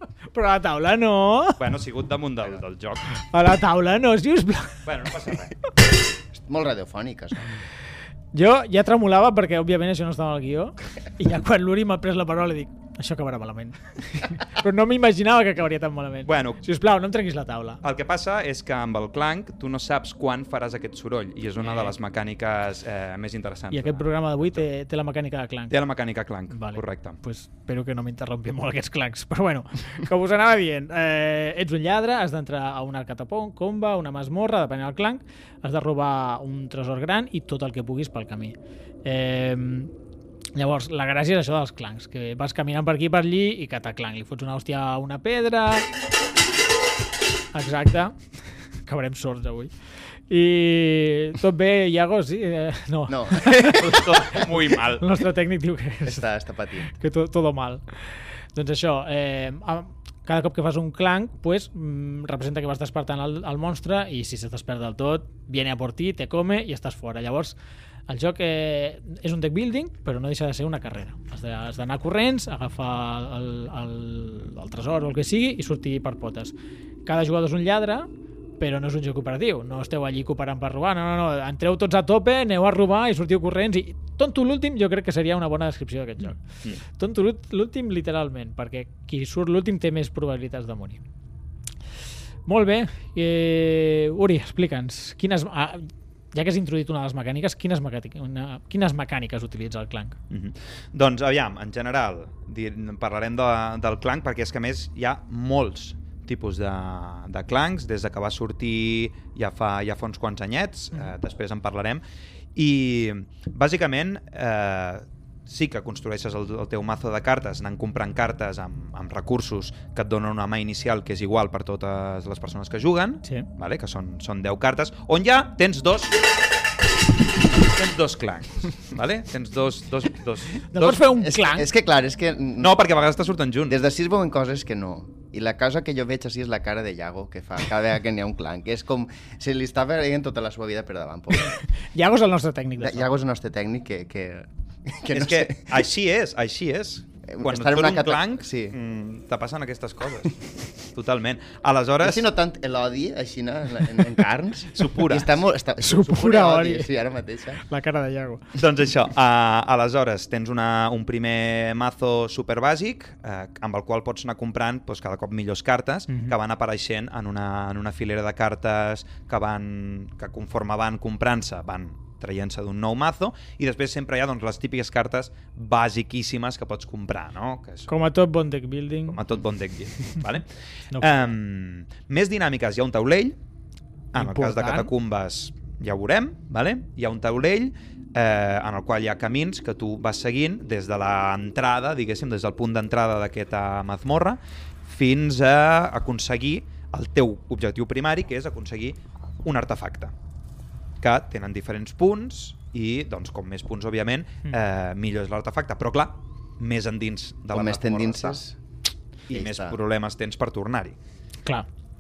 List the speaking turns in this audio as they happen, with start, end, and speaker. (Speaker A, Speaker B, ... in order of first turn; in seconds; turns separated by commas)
Speaker A: 0.3-1.6, Speaker B: 1.6-3.1, Speaker A: 3.1-4.8, Speaker B: 4.9-5.6, Speaker C: 6.3-7.5, Speaker A: 8.3-17.8, Speaker B: 16.3-16.6, Speaker B: 17.8-24.6, Speaker A: 21.6-21.9, Speaker A: 23.7-25.7, Speaker B: 25.7-27.2, Speaker A: 26.5-39.9, Speaker A: 40.6-45.9, Speaker A: 47.5-48.2, Speaker A: 48.9-49.7, Speaker A: 50.3-56.3, Speaker C: 53.1-54.0, Speaker B: 53.5-55.1, Speaker C: 56.0-57.0, Speaker A: 56.9-57.8, Speaker A: 58.5-67.6, Speaker A: 68.1-76.5, Speaker A: 77.1-78.1, Speaker A: 78.6-86.4, Speaker A: 86.9-91.0, Speaker A: 92.5-100.2, Speaker B: 100.3-112.0, Speaker B: 112.6-126.2, Speaker B: 127.7-131.1, Speaker A: 130.7-131.7, Speaker C: 131.2-132.8, Speaker B: 132.6-133.8, Speaker C: 133.7-141.6, Speaker A: 141.4-143.1, Speaker C: 142.8-145.8, Speaker B: 145.1-152.3, Speaker C: 147.3-148.8, Speaker C: 152.0-157.6, Speaker B: 154.8-155.3, Speaker A: 155.8-156.9, Speaker A: 157.6-158.5, Speaker B: 158.6-177.9, Speaker A: 166.1-166.3, Speaker A: 177.9-179.2, Speaker B: 179.1-183.4, Speaker B: 184.1-200.1, Speaker A: 184.2-184.9, Speaker B: 201.0-208.4, Speaker C: 207.5-208.6, Speaker B: 209.3-211.0, Speaker C: 209.3-209.8